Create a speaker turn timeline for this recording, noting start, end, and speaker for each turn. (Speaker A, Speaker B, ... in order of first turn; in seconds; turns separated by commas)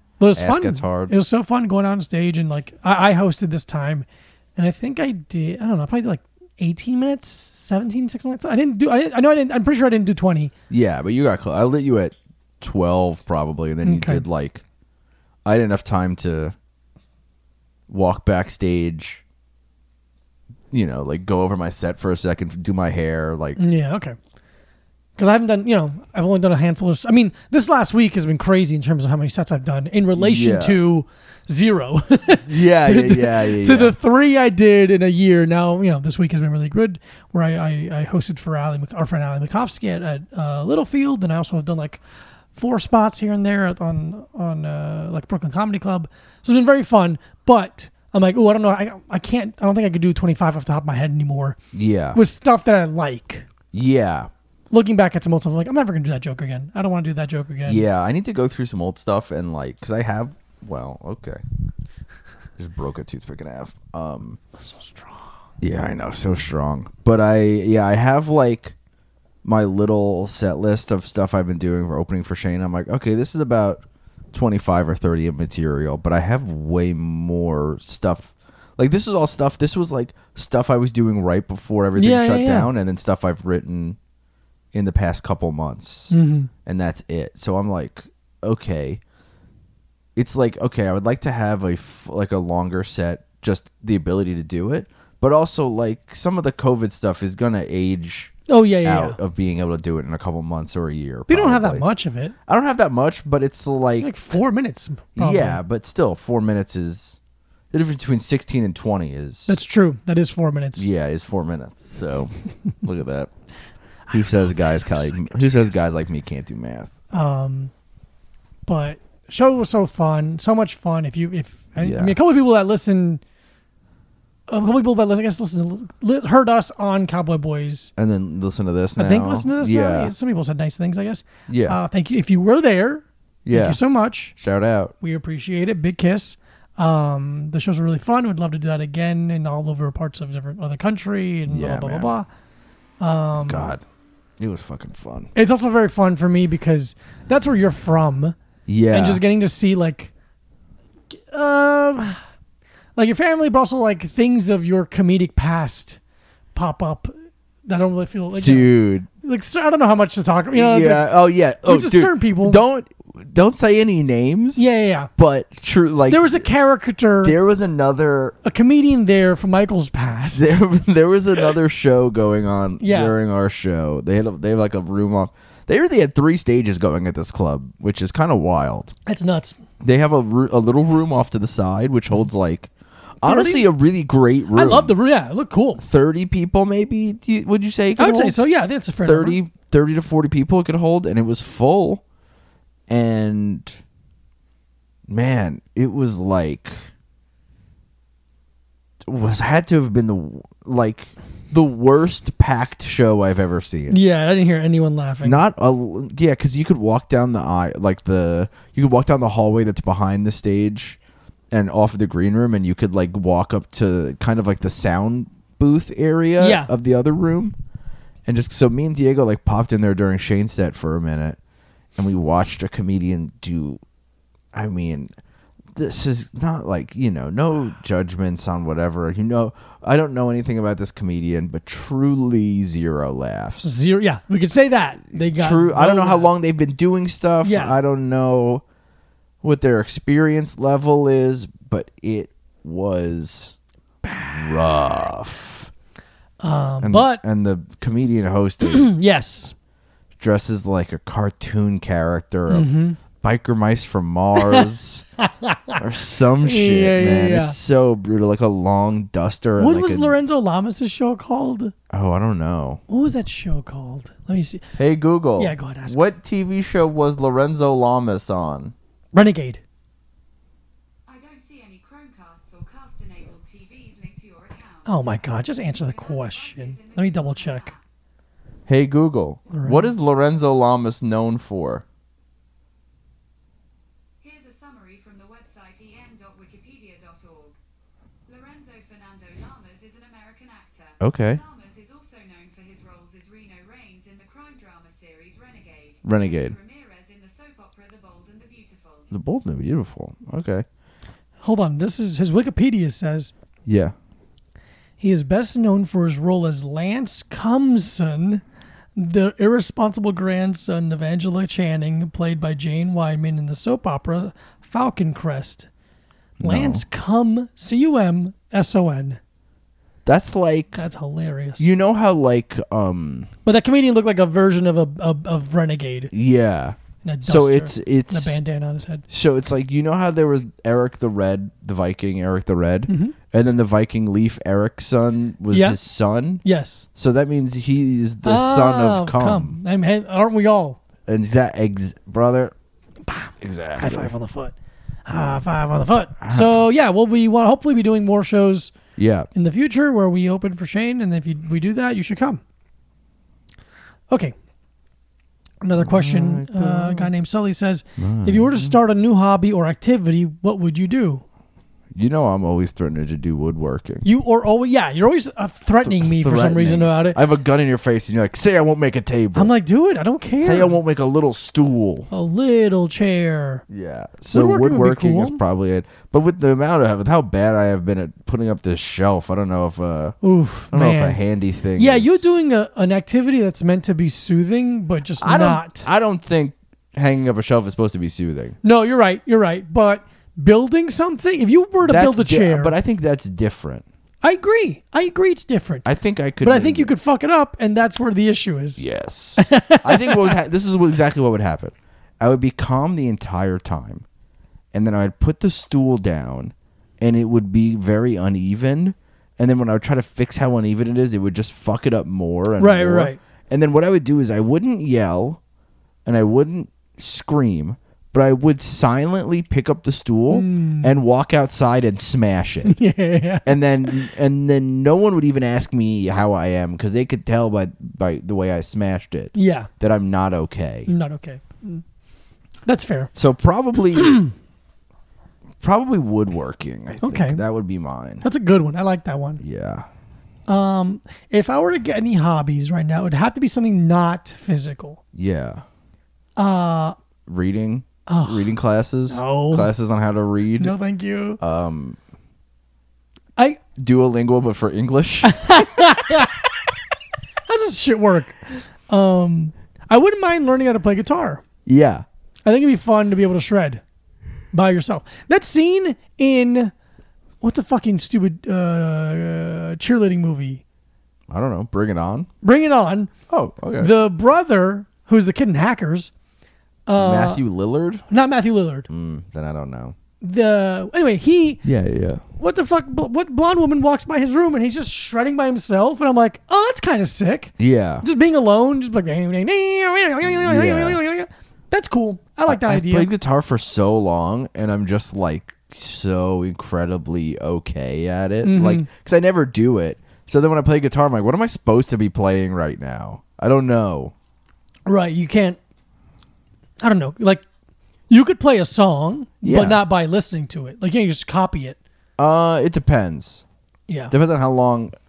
Speaker A: 0.2-10.5, Speaker B: 0.3-1.1, Speaker B: 10.7-14.6, Speaker A: 13.8-14.2, Speaker B: 15.4-16.6, Speaker B: 17.9-19.2, Speaker B: 20.7-23.6, Speaker A: 23.6-24.2, Speaker A: 25.2-42.0, Speaker B: 30.2-30.8, Speaker B: 32.4-34.0, Speaker A: 42.5-51.6, Speaker B: 51.7-52.2, Speaker A: 52.1-53.5, Speaker B: 53.7-54.3, Speaker A: 54.7-57.9, Speaker B: 57.7-61.4, Speaker B: 62.6-64.4, Speaker A: 64.7-65.3, Speaker B: 65.6-68.8, Speaker B: 69.4-84.0, Speaker A: 82.0-82.7, Speaker B: 84.7-86.1, Speaker A: 86.1-86.5, Speaker B: 86.7-89.0, Speaker B: 90.2-101.8, Speaker A: 98.5-99.2, Speaker A: 101.3-102.3, Speaker B: 102.5-104.1, Speaker A: 104.0-105.6, Speaker B: 105.2-107.2, Speaker B: 107.7-109.6, Speaker A: 109.5-110.9, Speaker B: 110.8-113.3, Speaker A: 114.1-115.8, Speaker B: 114.1-116.9, Speaker A: 117.1-117.7, Speaker A: 118.7-123.2, Speaker B: 121.8-122.2, Speaker A: 124.5-127.9, Speaker B: 128.0-130.1, Speaker A: 129.0-134.3, Speaker B: 131.5-131.8, Speaker B: 133.4-133.8, Speaker B: 134.3-134.9, Speaker A: 135.0-142.3, Speaker B: 141.5-142.1, Speaker A: 143.0-143.7, Speaker B: 143.4-143.8, Speaker B: 144.4-145.3, Speaker A: 145.3-148.3, Speaker B: 148.7-149.2, Speaker A: 148.9-150.1, Speaker A: 151.1-152.2, Speaker A: 153.0-156.0, Speaker A: 156.5-157.1, Speaker A: 157.7-162.6, Speaker B: 158.3-159.1, Speaker B: 160.5-166.5, Speaker A: 164.6-165.1, Speaker A: 166.1-167.4, Speaker B: 167.2-168.4, Speaker A: 168.4-170.6, Speaker B: 170.3-178.9, Speaker A: 172.8-173.1, Speaker A: 179.1-179.6, Speaker B: 179.8-184.9, Speaker A: 183.2-183.7, Speaker A: 184.5-185.8, Speaker B: 185.8-188.4, Speaker A: 188.0-189.4, Speaker B: 189.0-192.0, Speaker B: 192.9-193.8, Speaker B: 195.1-196.9, Speaker B: 199.1-204.0, Speaker A: 203.9-205.4, Speaker B: 205.2-211.0, Speaker B: 211.5-217.6, Speaker A: 216.4-216.7, Speaker B: 218.3-221.4, Speaker B: 222.0-223.8, Speaker B: 224.5-225.1, Speaker B: 225.8-233.7, Speaker A: 233.6-236.3, Speaker B: 235.1-238.6, Speaker A: 237.4-237.8, Speaker B: 239.4-243.6, Speaker A: 244.0-244.9, Speaker B: 244.3-245.7, Speaker A: 246.4-247.2, Speaker B: 246.8-248.9, Speaker A: 248.7-249.6, Speaker B: 250.2-255.1, Speaker A: 252.5-253.0, Speaker A: 254.4-254.7, Speaker A: 255.2-255.8, Speaker B: 255.8-260.2, Speaker A: 256.4-257.6, Speaker A: 259.6-261.7, Speaker B: 261.9-262.8, Speaker A: 262.9-264.7, Speaker B: 264.8-268.7, Speaker A: 265.4-266.0, Speaker A: 269.1-269.6, Speaker C: 271.1-277.8, Speaker A: 274.9-277.7, Speaker B: 278.7-281.9, Speaker A: 279.5-279.9, Speaker C: 284.2-287.6, Speaker C: 288.3-299.1, Speaker B: 291.0-291.4, Speaker B: 296.1-296.6, Speaker B: 299.1-300.7, Speaker A: 301.4-303.3, Speaker B: 303.7-303.9, Speaker A: 305.0-308.4, Speaker A: 309.0-315.7, Speaker B: 316.4-316.8, Speaker A: 316.4-319.2, Speaker B: 320.1-320.8, Speaker A: 320.8-321.7, Speaker B: 321.6-323.3, Speaker A: 323.4-326.1, Speaker B: 326.1-328.4, Speaker A: 327.0-329.1, Speaker B: 329.1-336.4, Speaker A: 332.9-333.2, Speaker A: 335.5-335.8, Speaker A: 336.4-336.9, Speaker B: 336.9-339.6, Speaker A: 338.2-340.8, Speaker B: 341.1-342.5, Speaker A: 343.1-344.5, Speaker B: 343.4-344.1, Speaker A: 345.1-348.7, Speaker B: 346.2-346.6, Speaker B: 349.0-349.3, Speaker A: 349.4-352.4, Speaker A: 355.6-361.2, Speaker B: 355.8-357.1, Speaker B: 358.0-358.8, Speaker B: 361.9-364.1, Speaker A: 364.0-367.2, Speaker B: 365.8-369.5, Speaker A: 369.4-370.8, Speaker B: 370.4-372.1, Speaker A: 372.1-373.6, Speaker B: 373.7-380.2, Speaker A: 374.3-375.4, Speaker A: 380.2-381.2, Speaker B: 380.7-382.4, Speaker A: 381.8-385.9, Speaker B: 385.2-388.6, Speaker A: 388.6-392.8, Speaker B: 391.8-393.9, Speaker A: 394.2-395.9, Speaker B: 395.9-396.9, Speaker A: 396.4-398.8, Speaker B: 398.8-404.1, Speaker A: 399.4-400.4, Speaker B: 404.7-415.4, Speaker A: 412.6-413.2, Speaker B: 416.1-422.8, Speaker A: 420.3-421.0, Speaker A: 422.7-424.1, Speaker B: 423.4-430.9, Speaker A: 429.4-429.7, Speaker A: 430.9-431.8, Speaker A: 432.7-433.1, Speaker B: 433.1-434.2, Speaker A: 434.0-434.3, Speaker B: 435.6-438.2, Speaker A: 437.0-437.4, Speaker A: 438.2-439.4, Speaker B: 439.4-439.9, Speaker A: 440.5-445.0, Speaker B: 445.1-445.6, Speaker A: 446.4-447.0, Speaker B: 447.3-450.8, Speaker A: 448.1-448.5, Speaker A: 449.1-449.7, Speaker A: 450.6-451.4, Speaker B: 451.4-452.0, Speaker B: 453.8-456.2, Speaker A: 455.2-456.4, Speaker A: 457.5-461.4, Speaker B: 461.7-462.1, Speaker A: 462.5-463.8, Speaker A: 464.5-466.7, Speaker A: 467.4-470.6, Speaker B: 471.3-472.3, Speaker A: 472.4-473.1, Speaker B: 473.3-473.9, Speaker A: 473.8-476.1, Speaker A: 476.9-477.4, Speaker B: 477.0-478.1, Speaker A: 478.1-478.9, Speaker B: 478.9-480.0, Speaker A: 480.2-481.6, Speaker B: 481.6-482.2, Speaker A: 482.4-493.1, Speaker B: 487.6-488.1, Speaker B: 490.3-491.0, Speaker B: 492.5-504.1, Speaker A: 498.4-498.9, Speaker A: 504.9-505.6, Speaker A: 506.8-507.4, Speaker A: 508.1-511.8, Speaker B: 509.4-509.8, Speaker B: 512.2-513.5, Speaker A: 513.9-514.1, Speaker B: 514.1-514.9